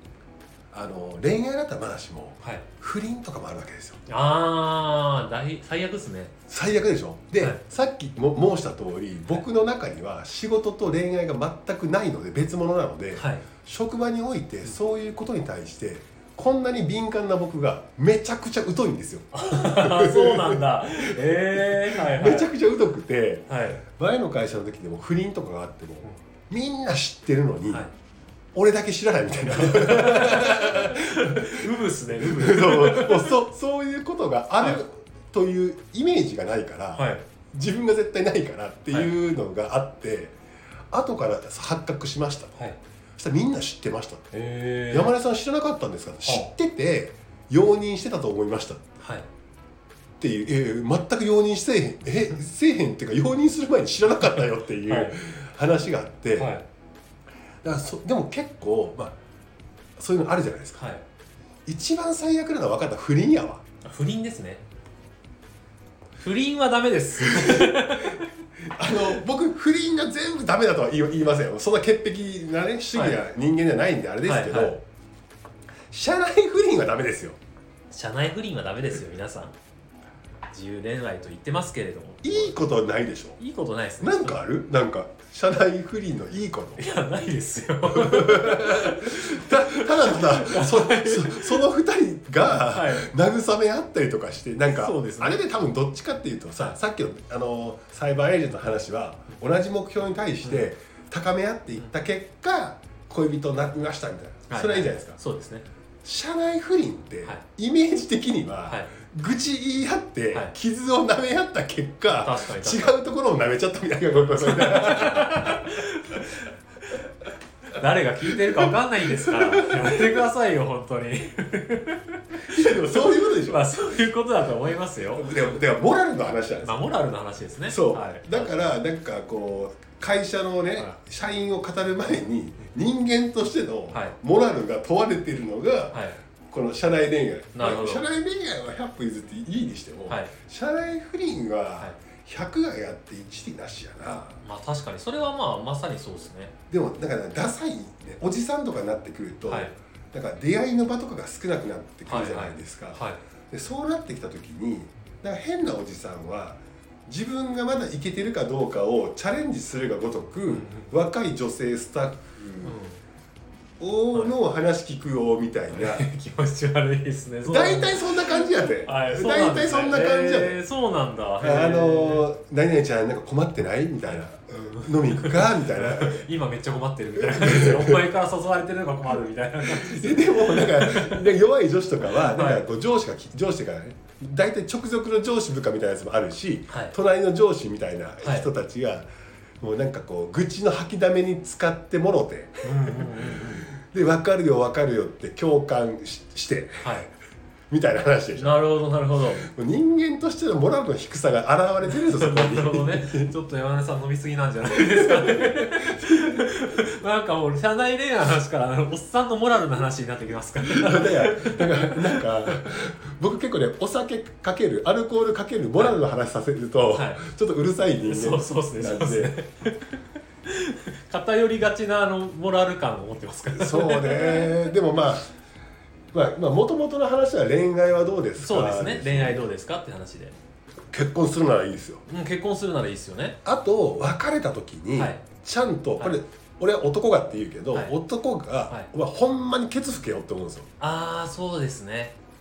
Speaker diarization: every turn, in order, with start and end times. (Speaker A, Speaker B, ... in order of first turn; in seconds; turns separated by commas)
Speaker A: 0.7-4.0, Speaker B: 4.1-6.3, Speaker A: 6.5-27.9, Speaker B: 13.2-13.5, Speaker B: 19.3-22.5, Speaker B: 23.5-23.8, Speaker A: 28.6-40.3, Speaker B: 29.5-33.4, Speaker B: 37.0-37.2, Speaker A: 40.9-42.5, Speaker A: 43.2-44.3, Speaker B: 44.3-45.1, Speaker A: 44.9-48.8, Speaker B: 46.2-46.5, Speaker B: 49.0-49.2, Speaker A: 50.2-56.5, Speaker B: 54.9-55.2, Speaker B: 56.4-56.6, Speaker A: 57.6-59.1, Speaker A: 60.0-60.9, Speaker B: 60.8-61.0, Speaker A: 61.7-63.6, Speaker B: 63.8-64.6, Speaker B: 66.2-68.3, Speaker A: 67.2-68.0, Speaker A: 68.7-74.8, Speaker B: 68.9-69.2, Speaker B: 74.2-74.8, Speaker A: 75.9-77.4, Speaker B: 77.9-79.5, Speaker B: 80.5-82.6, Speaker A: 82.2-83.4, Speaker B: 83.4-84.4, Speaker A: 84.0-86.8, Speaker B: 86.8-91.6, Speaker A: 87.9-105.2, Speaker B: 92.4-93.1, Speaker B: 94.7-95.4, Speaker B: 100.4-100.7, Speaker B: 104.5-105.7, Speaker A: 106.0-115.7, Speaker B: 108.7-108.9, Speaker B: 112.1-112.9, Speaker B: 114.3-117.0, Speaker B: 117.7-125.4, Speaker A: 118.3-120.1, Speaker A: 122.5-123.7, Speaker A: 125.1-126.8, Speaker B: 126.6-128.6, Speaker A: 127.7-144.4, Speaker B: 135.9-136.2, Speaker B: 137.5-138.1, Speaker B: 140.1-140.3, Speaker B: 144.4-146.5, Speaker A: 146.7-162.8, Speaker B: 149.5-149.7, Speaker B: 152.1-153.2, Speaker B: 160.5-160.9, Speaker B: 162.6-163.0, Speaker A: 163.8-166.1, Speaker B: 165.7-172.2, Speaker A: 167.4-170.6, Speaker A: 171.4-176.3, Speaker B: 174.5-181.4, Speaker A: 177.2-178.1, Speaker A: 179.6-189.1, Speaker B: 182.0-182.7, Speaker B: 186.7-186.9, Speaker B: 188.2-188.5, Speaker A: 189.6-197.1, Speaker B: 192.6-193.7, Speaker B: 196.8-197.1, Speaker A: 197.7-198.7, Speaker B: 198.4-199.5, Speaker A: 199.4-203.3, Speaker B: 201.8-212.7, Speaker A: 204.8-206.5, Speaker A: 210.6-219.3, Speaker B: 216.9-217.2, Speaker B: 218.1-219.9, Speaker B: 220.5-224.7, Speaker A: 223.5-225.3, Speaker A: 226.1-229.5, Speaker B: 228.4-230.3, Speaker A: 230.9-232.0, Speaker B: 232.1-233.4, Speaker A: 233.4-240.7, Speaker B: 235.0-235.2, Speaker B: 240.8-242.2